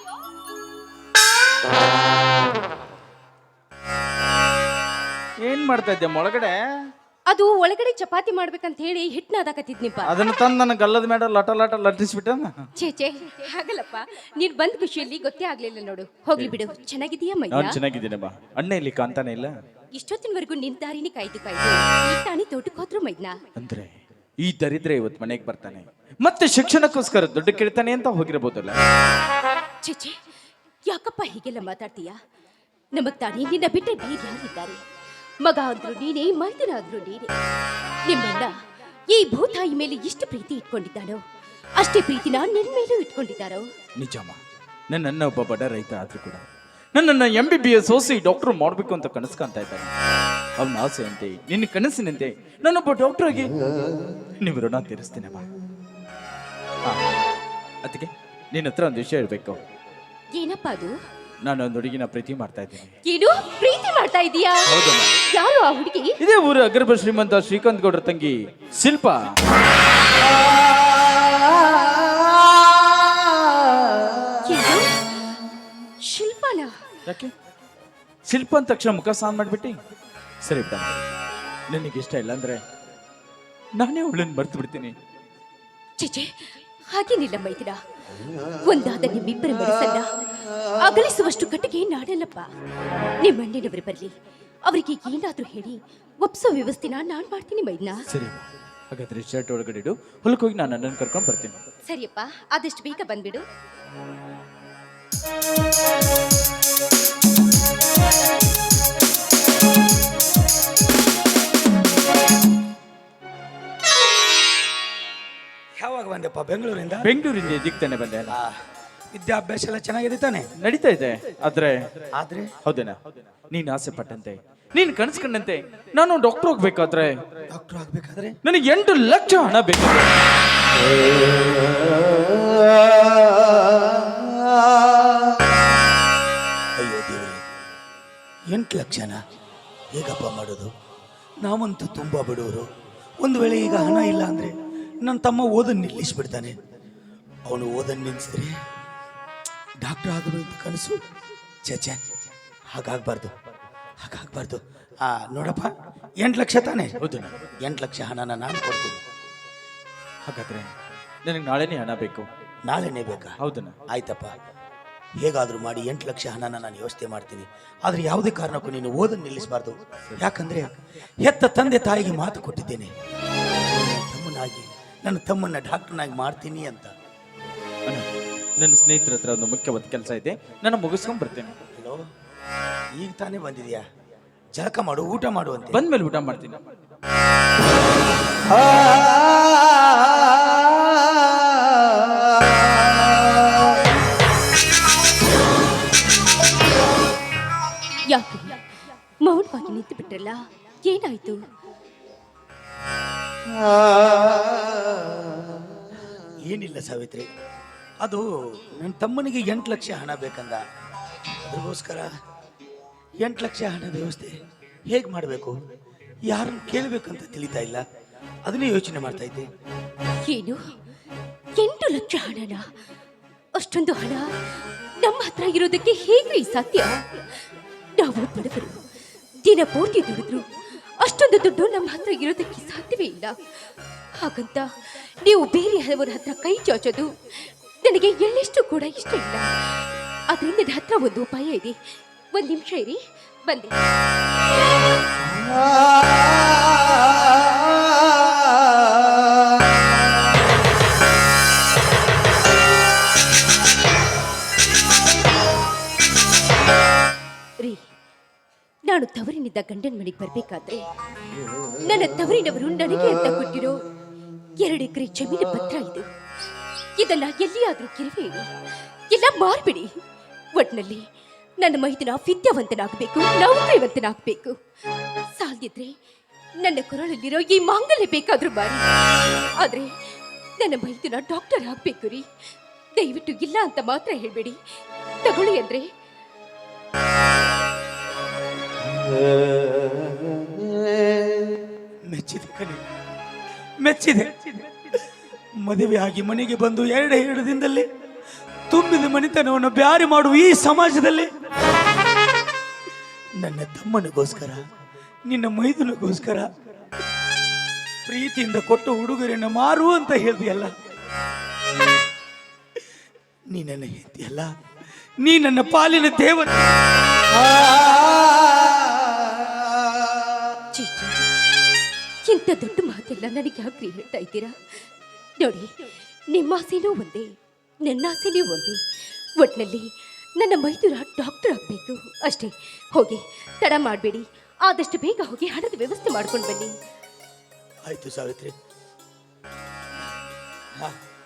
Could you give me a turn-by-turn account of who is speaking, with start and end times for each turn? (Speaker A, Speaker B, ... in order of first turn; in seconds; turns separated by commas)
Speaker A: 5.4-6.6, Speaker B: 7.3-10.2, Speaker A: 10.1-12.7, Speaker B: 12.8-17.8, Speaker A: 17.5-19.6, Speaker B: 19.9-23.4, Speaker A: 23.6-28.8, Speaker B: 29.8-30.2, Speaker B: 30.9-32.2, Speaker B: 33.0-34.8, Speaker B: 35.4-37.3, Speaker B: 38.1-38.5, Speaker B: 39.1-41.2, Speaker B: 41.8-43.6, Speaker A: 44.0-44.4, Speaker A: 44.9-49.9, Speaker A: 50.6-53.5, Speaker A: 54.4-55.5, Speaker A: 57.8-59.6, Speaker B: 60.3-61.0, Speaker A: 61.4-62.9, Speaker B: 63.0-66.2, Speaker A: 64.7-65.1, Speaker A: 66.2-69.4, Speaker B: 74.4-75.0, Speaker B: 76.0-76.7, Speaker A: 77.1-77.3, Speaker A: 78.3-79.8, Speaker A: 80.4-80.9, Speaker A: 81.7-82.6, Speaker A: 83.8-85.0, Speaker B: 86.0-87.8, Speaker B: 88.6-90.1, Speaker B: 90.8-92.5, Speaker B: 93.2-94.1, Speaker B: 94.7-98.0, Speaker A: 98.1-101.6, Speaker B: 101.9-103.4, Speaker C: 115.8-117.1, Speaker A: 117.0-118.4, Speaker C: 118.3-118.6, Speaker C: 119.1-120.5, Speaker A: 120.6-121.9, Speaker C: 122.2-122.5, Speaker A: 122.7-123.0, Speaker A: 123.5-127.2, Speaker C: 127.5-128.4, Speaker A: 128.4-130.2, Speaker C: 136.8-137.5, Speaker C: 138.5-139.2, Speaker C: 139.9-140.7, Speaker C: 141.4-142.7, Speaker C: 143.2-146.6, Speaker C: 147.5-148.6, Speaker C: 149.8-151.0, Speaker C: 151.7-152.0, Speaker C: 152.7-153.3, Speaker C: 154.0-155.7, Speaker C: 156.2-157.0, Speaker A: 157.0-157.4, Speaker C: 157.6-159.1, Speaker A: 160.3-160.7, Speaker A: 161.2-162.3, Speaker C: 162.7-164.3, Speaker A: 163.4-163.8, Speaker C: 165.2-172.9, Speaker C: 173.7-176.9, Speaker A: 178.6-181.6, Speaker C: 181.8-182.1, Speaker C: 183.0-183.8, Speaker C: 184.6-185.8, Speaker A: 185.7-186.6, Speaker B: 198.1-198.6, Speaker B: 199.2-201.5, Speaker C: 206.5-207.3, Speaker C: 208.0-210.6, Speaker C: 211.4-212.1, Speaker C: 213.2-214.4, Speaker C: 214.9-215.6, Speaker C: 216.3-217.8, Speaker C: 218.5-219.5, Speaker B: 220.3-220.6, Speaker B: 221.6-222.7, Speaker B: 223.6-224.3, Speaker B: 225.0-227.3, Speaker B: 228.0-228.8, Speaker B: 229.4-230.5, Speaker B: 231.0-233.4, Speaker B: 234.2-241.8, Speaker B: 242.3-243.7, Speaker B: 258.9-260.8, Speaker B: 261.8-263.8, Speaker B: 264.6-266.1, Speaker B: 267.0-268.5, Speaker B: 269.1-269.9, Speaker B: 270.6-271.1, Speaker B: 271.6-274.6, Speaker B: 275.4-276.0, Speaker B: 276.6-278.8, Speaker B: 279.6-279.9, Speaker B: 280.6-282.3, Speaker B: 283.0-284.6, Speaker B: 285.2-285.9, Speaker C: 292.1-292.8, Speaker C: 293.8-295.0, Speaker C: 295.6-297.9, Speaker C: 298.7-301.3, Speaker C: 303.4-304.6, Speaker C: 305.3-306.5, Speaker C: 308.1-310.7, Speaker C: 313.5-314.5, Speaker C: 315.2-316.7, Speaker B: 320.7-321.3, Speaker B: 322.2-324.6, Speaker B: 325.4-327.3, Speaker B: 327.9-328.8, Speaker B: 329.4-336.7, Speaker C: 337.9-338.6